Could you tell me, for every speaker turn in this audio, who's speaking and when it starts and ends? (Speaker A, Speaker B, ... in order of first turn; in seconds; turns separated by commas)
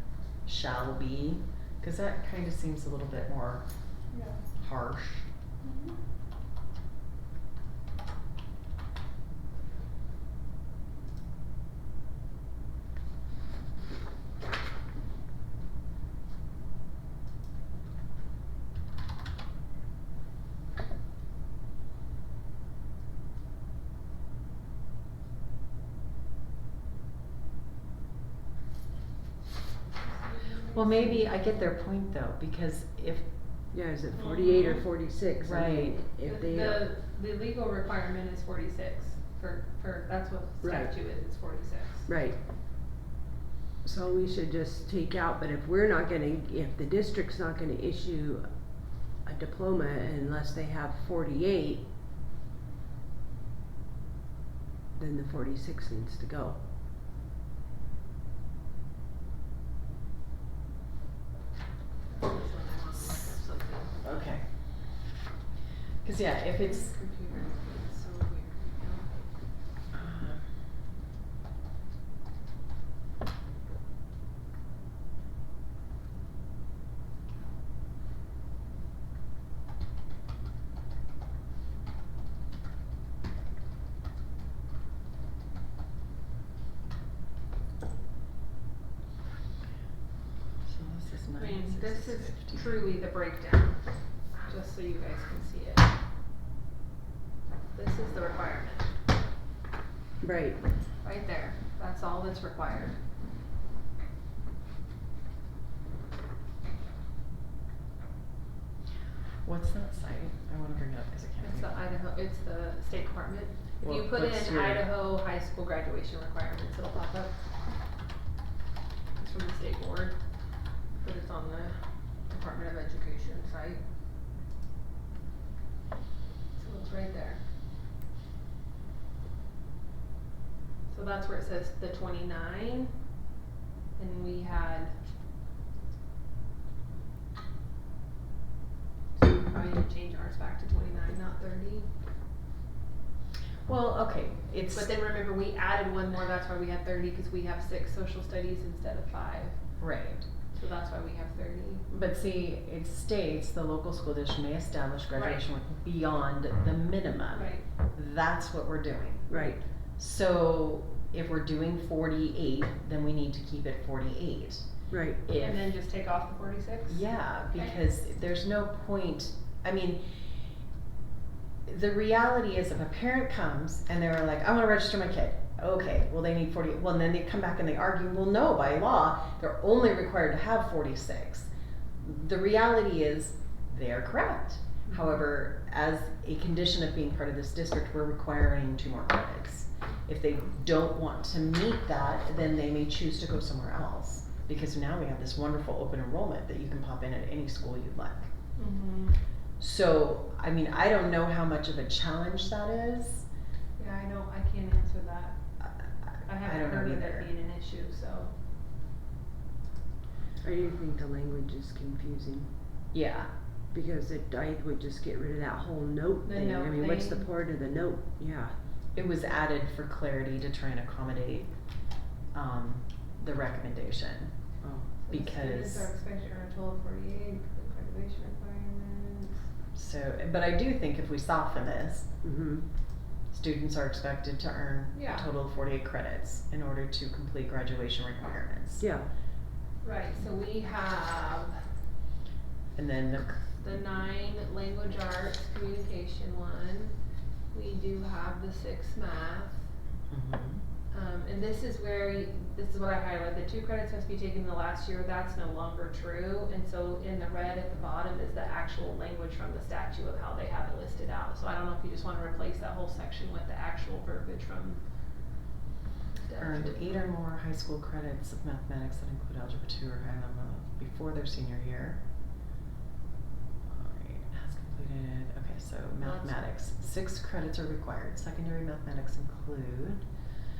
Speaker A: 0.5-3.6, Speaker B: 4.1-4.5, Speaker A: 4.6-5.3, Speaker B: 5.6-6.0, Speaker B: 30.0-31.2, Speaker A: 30.6-33.2, Speaker C: 33.7-36.9, Speaker B: 34.1-34.9, Speaker A: 35.4-36.0, Speaker B: 36.2-42.1, Speaker C: 40.6-40.9, Speaker C: 42.1-42.4, Speaker C: 43.8-48.4, Speaker C: 49.2-51.9, Speaker C: 54.9-56.6, Speaker B: 62.1-64.2, Speaker A: 64.0-64.5, Speaker A: 66.0-66.9, Speaker B: 66.6-69.1, Speaker A: 69.9-70.5, Speaker A: 90.6-92.8, Speaker B: 91.4-93.8, Speaker B: 94.4-95.9, Speaker B: 97.7-98.9, Speaker C: 100.2-100.6, Speaker B: 101.0-103.0, Speaker A: 109.4-111.8, Speaker B: 111.4-117.3, Speaker A: 113.8-114.9, Speaker B: 119.2-120.2, Speaker B: 121.0-123.8, Speaker B: 126.5-127.4, Speaker B: 130.9-133.0, Speaker B: 134.0-134.9, Speaker B: 139.2-141.9, Speaker A: 143.7-144.9, Speaker B: 144.7-149.6, Speaker A: 149.8-150.3, Speaker B: 150.5-151.8, Speaker A: 151.9-164.7, Speaker B: 155.2-155.4, Speaker B: 157.3-157.6, Speaker C: 159.3-159.6, Speaker C: 164.9-165.2, Speaker A: 165.2-165.7, Speaker B: 165.4-167.8, Speaker A: 166.9-170.2, Speaker A: 171.7-198.3, Speaker B: 184.9-185.2, Speaker B: 198.6-199.2, Speaker A: 199.6-203.2, Speaker B: 203.8-205.4, Speaker B: 206.2-208.3, Speaker A: 206.4-207.3, Speaker C: 210.4-212.5, Speaker A: 212.9-213.3, Speaker C: 213.7-218.6, Speaker B: 216.2-217.3, Speaker A: 218.9-221.5, Speaker A: 222.3-224.3, Speaker C: 224.6-224.9, Speaker A: 225.1-225.9, Speaker B: 225.1-229.4, Speaker A: 229.7-232.1, Speaker C: 232.2-232.7, Speaker A: 233.3-238.9, Speaker B: 234.9-235.2, Speaker C: 238.8-239.1, Speaker B: 239.8-241.6, Speaker A: 242.8-243.5, Speaker B: 243.6-246.9, Speaker B: 247.5-249.6, Speaker A: 250.1-250.6, Speaker B: 250.9-264.8, Speaker B: 266.1-266.9, Speaker A: 266.4-272.0, Speaker A: 273.6-280.1, Speaker B: 276.0-276.4